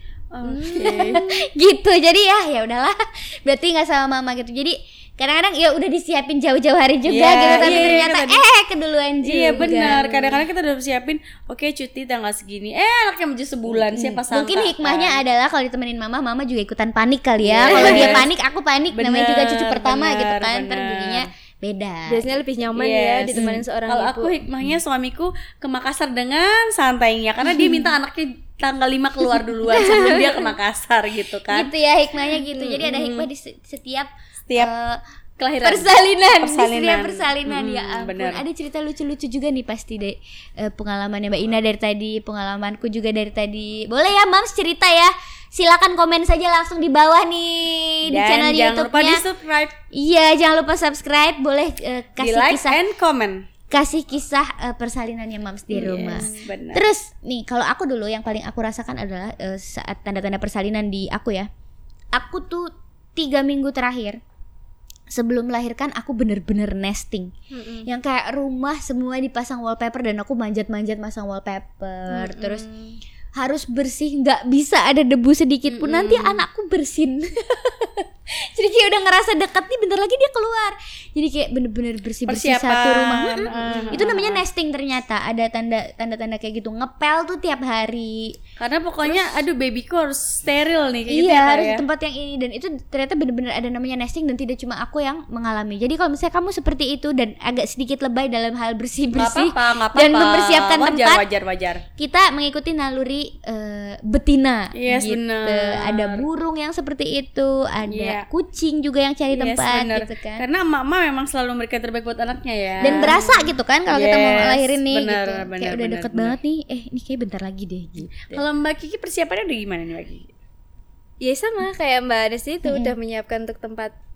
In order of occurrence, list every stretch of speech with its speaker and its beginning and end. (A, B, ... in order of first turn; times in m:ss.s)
0:00.3-0:01.3 A
0:00.4-0:01.2 B
0:00.7-0:10.0 C
0:07.0-0:08.4 A
0:07.6-0:07.8 B
0:09.2-0:15.2 A
0:09.6-0:10.3 B
0:13.7-0:22.3 C
0:17.4-0:18.3 A
0:17.7-0:18.2 B
0:18.9-0:21.3 A
0:22.1-0:24.4 B
0:22.7-0:31.7 A
0:23.3-0:23.6 C
0:27.5-0:27.8 C
0:29.7-0:30.3 B
0:29.8-0:30.2 C
0:31.5-0:35.0 C
0:32.8-0:33.3 A
0:35.4-0:38.4 A
0:35.6-0:49.2 C
0:48.1-0:49.8 A
0:49.9-0:52.8 C
0:52.2-0:53.5 A
0:53.7-1:01.5 C
0:55.7-0:56.9 A
0:56.1-0:56.4 B
1:02.1-1:04.2 C
1:05.1-1:07.3 C
1:07.5-1:07.9 B
1:07.8-1:12.6 C
1:12.1-1:13.0 B
1:13.4-1:28.4 C
1:15.7-1:16.4 A
1:22.3-1:24.4 A
1:28.6-1:31.8 A
1:29.0-1:29.4 C
1:31.1-1:41.2 C
1:39.1-1:41.8 A
1:42.0-1:50.4 C
1:44.7-1:46.2 A
1:47.9-1:48.2 A
1:49.3-1:53.2 A
1:52.8-1:58.4 C
1:52.9-1:53.2 B
1:53.9-1:56.4 A
1:58.3-2:00.3 A
2:01.2-2:03.9 B
2:02.6-2:02.9 C